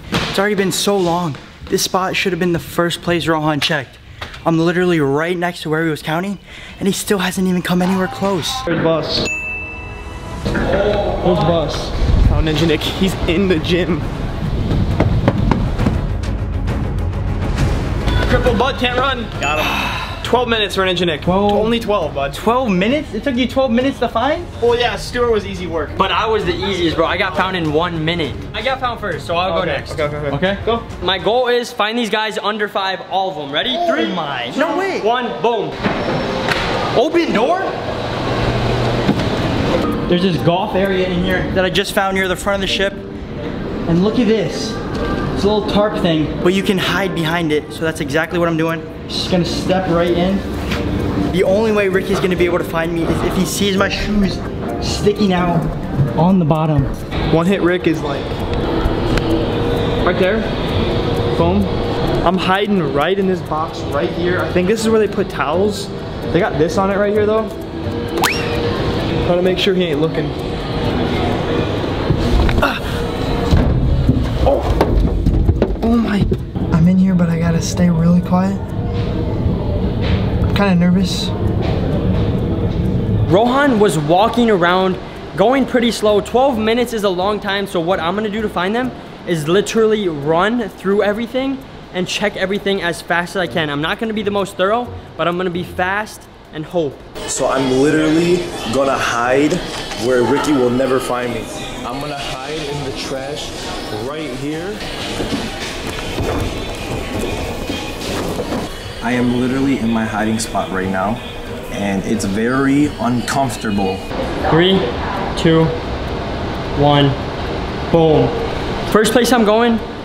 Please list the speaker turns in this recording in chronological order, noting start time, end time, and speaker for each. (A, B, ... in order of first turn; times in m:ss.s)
0:00.3-0:08.6 A
0:08.7-0:09.3 B
0:11.2-0:14.1 B
0:18.3-0:22.4 B
0:21.3-0:21.7 C
0:22.3-0:24.5 A
0:24.6-0:26.0 B
0:26.0-0:30.1 C
0:29.5-0:30.8 B
0:30.3-0:30.6 A
0:31.0-0:35.8 C
0:33.7-0:35.1 A
0:36.9-0:37.8 A
0:40.1-0:43.1 A
0:43.9-0:44.8 A
0:45.4-0:50.5 A
0:51.3-0:56.9 A
0:57.3-0:58.3 B
1:00.0-1:00.5 B
1:01.3-1:01.7 B
1:02.2-1:07.6 B
1:09.2-1:10.4 B
1:15.8-1:16.3 B
1:16.7-1:18.6 A
1:20.5-1:21.3 A
1:23.3-1:37.1 C
1:37.3-1:44.8 D
1:49.0-1:54.0 D
1:54.5-1:55.8 C
1:56.8-1:57.2 C
1:57.9-1:59.8 C